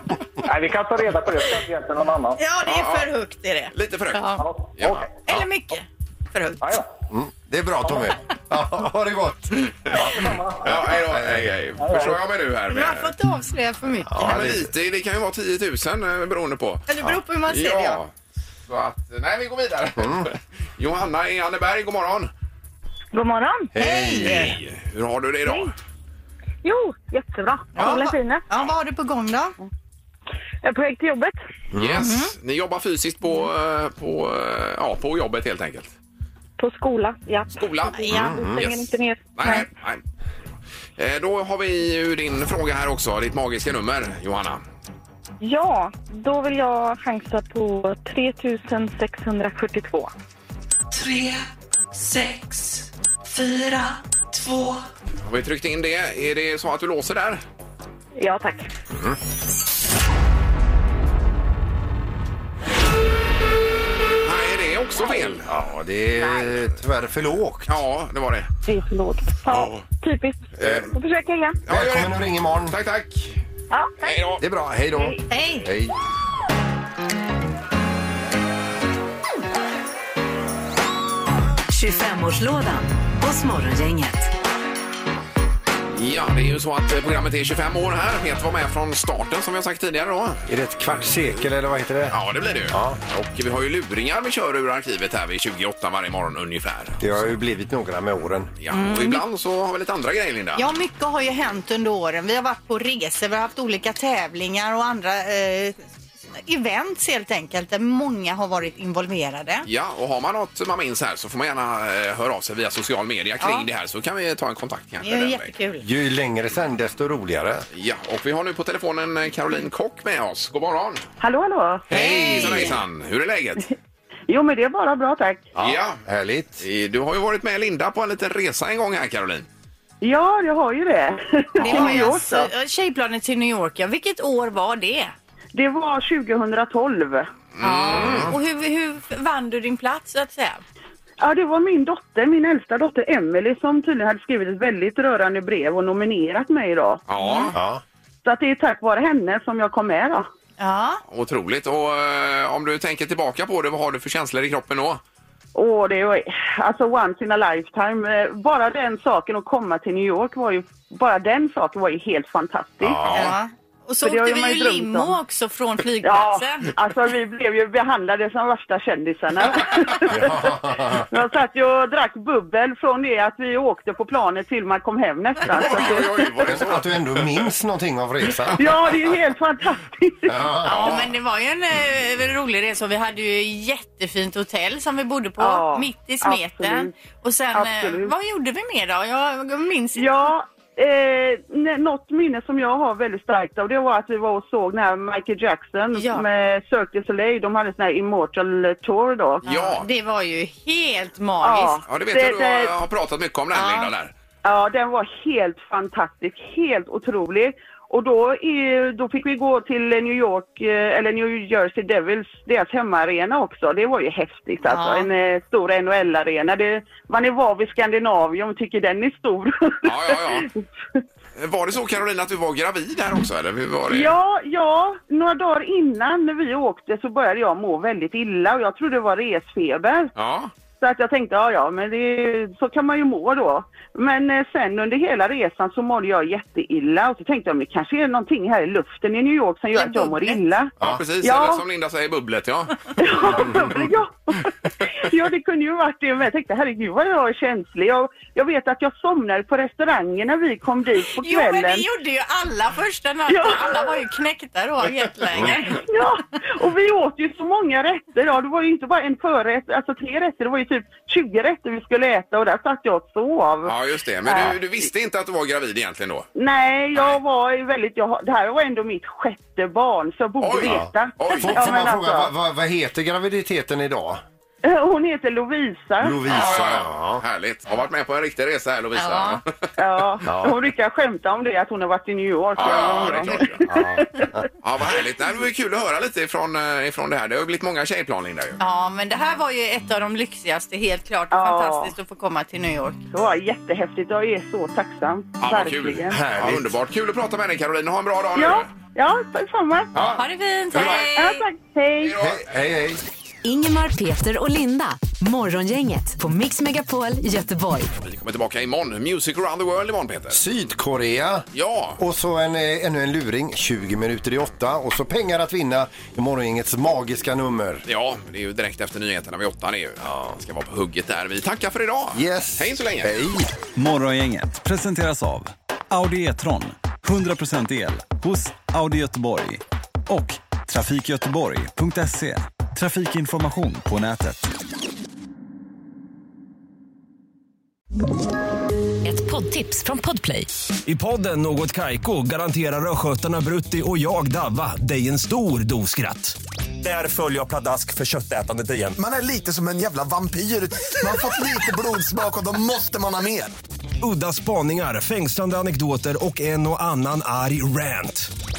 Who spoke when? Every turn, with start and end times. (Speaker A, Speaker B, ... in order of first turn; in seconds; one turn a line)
Speaker A: 0.4-2.4
Speaker B: 2.4-4.4
Speaker C: 2.6-3.1
Speaker C: 3.7-5.4
Speaker A: 4.4-5.0
Speaker B: 5.2-6.8
Speaker D: 7.1-11.5
Speaker A: 9.9-10.7
Speaker C: 10.6-13.1
Speaker A: 11.8-12.2
Speaker B: 12.7-14.5
Speaker D: 14.1-14.7
Speaker C: 14.2-16.9
Speaker B: 16.9-18.0
Speaker C: 17.5-18.1
Speaker C: 18.7-22.3
Speaker D: 20.0-20.3
Speaker E: 23.1-23.7
Speaker D: 23.7-24.6
Speaker B: 24.1-24.5
Speaker C: 24.2-25.7
Speaker E: 26.6-28.4
Speaker B: 27.7-29.6
Speaker E: 30.6-31.4
Speaker C: 31.7-35.9
Speaker D: 31.7-32.0
Speaker B: 32.0-32.3
Speaker E: 36.6-39.6
Speaker C: 37.5-40.0
Speaker D: 38.1-38.6
Speaker C: 41.0-44.6
Speaker E: 45.4-50.1
Speaker F: 50.9-54.9
Speaker C: 55.2-57.4
Speaker E: 58.1-58.7
Speaker C: 64.2-65.5
Speaker D: 65.5-67.8
Speaker C: 67.7-68.5
Speaker E: 68.6-71.6
Speaker C: 69.5-69.8
Speaker C: 70.5-70.9
Speaker D: 70.6-70.9
Speaker C: 71.7-73.4
Speaker D: 71.7-72.7
Speaker E: 73.7-74.1
Speaker C: 74.0-74.4
Speaker D: 74.4-75.9
Speaker B: 75.3-75.7
Speaker G: 81.7-84.3
Speaker C: 85.9-90.4
Speaker D: 90.5-92.2
Speaker C: 92.1-97.0
Speaker D: 92.7-93.0
Speaker D: 97.0-98.5
Speaker C: 98.6-100.7
Speaker B: 98.7-99.2
Speaker B: 100.5-105.8
Speaker B: 106.3-109.7
Speaker C: 109.6-115.5
Speaker B: 113.4-113.7
Speaker B: 115.0-115.8
Speaker D: 115.8-117.7
Speaker C: 117.7-121.0
Speaker H: 121.2-121.8
Speaker C: 121.9-123.7
Speaker B: 121.9-122.8
Speaker D: 122.0-122.2
Speaker H: 124.3-125.5
Speaker D: 125.5-126.6
Speaker C: 125.6-126.0
Speaker C: 126.6-129.5
Speaker H: 130.0-132.5
Speaker B: 131.6-135.1
Speaker H: 135.5-137.3
Speaker C: 137.5-138.3
Speaker B: 137.6-140.6
Speaker D: 138.0-138.3
Speaker H: 141.2-147.0
Speaker C: 147.1-147.6
Speaker B: 147.2-147.5
Speaker D: 147.5-147.8
Speaker H: 148.2-150.3
Speaker B: 150.6-151.0
Speaker C: 151.1-155.0
Speaker H: 155.5-163.0
Speaker D: 162.8-163.3
Speaker C: 163.0-163.3
Speaker B: 163.1-166.7
Speaker H: 164.0-165.2
Speaker H: 166.0-176.1
Speaker D: 170.1-171.1
Speaker C: 175.5-177.5
Speaker D: 176.4-178.7
Speaker H: 178.5-180.5
Speaker D: 180.3-181.0
Speaker B: 180.7-190.3
Speaker C: 180.7-181.1
Speaker H: 185.4-186.9
Speaker H: 187.5-188.1
Speaker H: 190.0-199.4
Speaker B: 195.9-196.2
Speaker C: 199.4-199.9
Speaker B: 199.4-201.8
Speaker H: 201.4-202.7
Speaker C: 201.8-204.1
Speaker B: 203.5-203.9
Speaker H: 204.4-221.0
Speaker B: 214.6-215.1
Speaker C: 219.8-220.5
Speaker C: 221.3-224.1
Speaker H: 223.9-230.1
Speaker C: 230.1-230.5
Speaker H: 230.8-241.6
Speaker B: 239.7-240.4
Speaker C: 240.8-242.8
Speaker H: 243.0-251.8
Speaker D: 243.3-243.7
Speaker B: 251.2-255.8
Speaker H: 253.3-254.0
Speaker H: 255.7-263.7
Speaker C: 263.7-266.3
Speaker H: 264.2-264.6
Speaker H: 266.3-272.3
Speaker C: 270.4-271.9
Speaker D: 270.6-274.2
Speaker H: 274.6-276.6
Speaker D: 276.0-277.2
Speaker C: 276.2-279.7
Speaker B: 278.9-279.4
Speaker H: 279.8-284.3
Speaker D: 280.2-280.6
Speaker C: 282.6-283.6
Speaker D: 283.6-284.4
Speaker C: 284.6-288.6
Speaker B: 288.6-293.0
Speaker H: 291.3-291.9
Speaker H: 293.1-296.2
Speaker C: 295.4-298.7
Speaker D: 296.1-296.7
Speaker H: 298.4-299.9
Speaker C: 299.9-301.1
Speaker B: 300.2-301.5
Speaker H: 300.8-302.1
Speaker C: 302.0-302.7
Speaker D: 302.2-303.0
Speaker G: 303.4-307.9
Speaker C: 308.0-310.4
Speaker D: 310.3-311.4
Speaker C: 311.5-312.0
Speaker D: 312.0-317.8
Speaker C: 317.9-323.1
Speaker D: 320.0-320.4
Speaker D: 322.1-323.5
Speaker I: 323.8-334.5
Speaker G: 339.0-340.5
Speaker J: 340.9-349.0
Speaker K: 348.9-353.5
Speaker J: 354.0-358.3